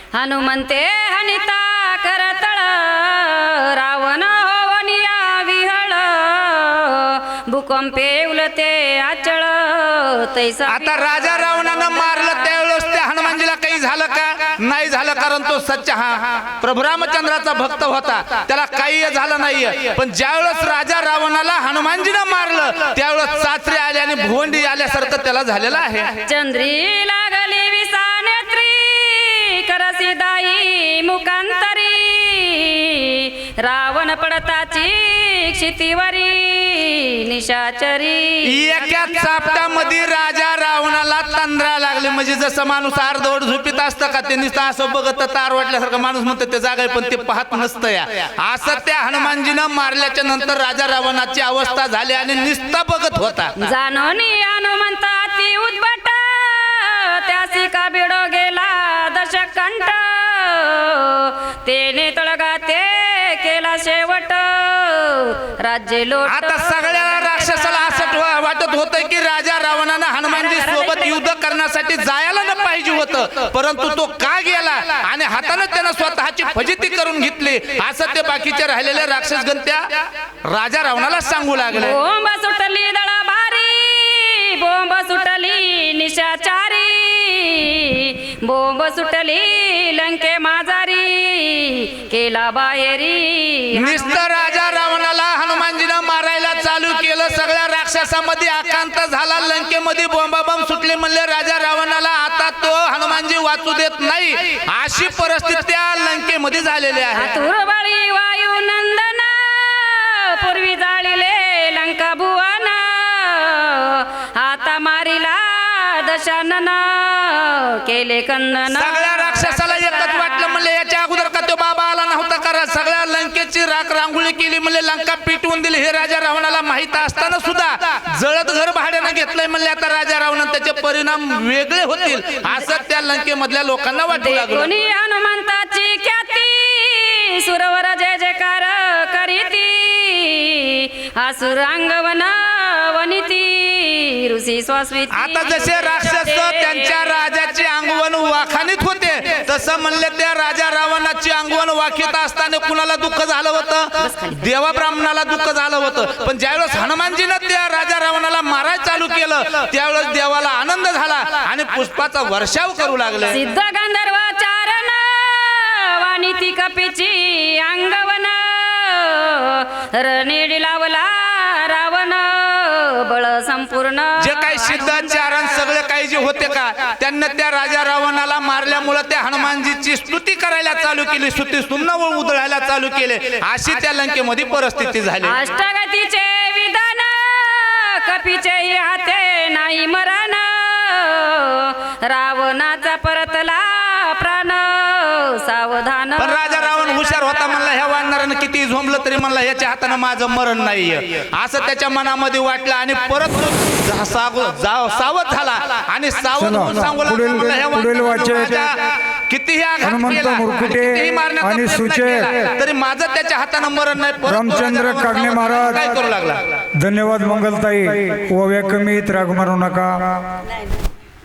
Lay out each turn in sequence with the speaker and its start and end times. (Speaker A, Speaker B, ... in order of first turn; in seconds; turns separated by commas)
Speaker A: 0.1-12.5, Speaker B: 10.7-26.2, Speaker A: 26.2-39.0, Speaker B: 38.5-53.5, Speaker A: 53.6-68.3, Speaker B: 66.3-82.0, Speaker A: 70.3-71.2, Speaker A: 81.7-94.2, Speaker B: 93.8-107.3, Speaker A: 107.1-120.7, Speaker B: 118.7-134.7, Speaker A: 134.1-147.2, Speaker B: 145.1-163.4, Speaker A: 163.3-175.1, Speaker B: 174.2-185.3, Speaker A: 185.2-197.5, Speaker B: 196.2-208.8, Speaker C: 206.4-208.7, Speaker B: 209.3-216.6, Speaker C: 209.8-212.4, Speaker C: 214.3-216.0, Speaker C: 216.8-220.2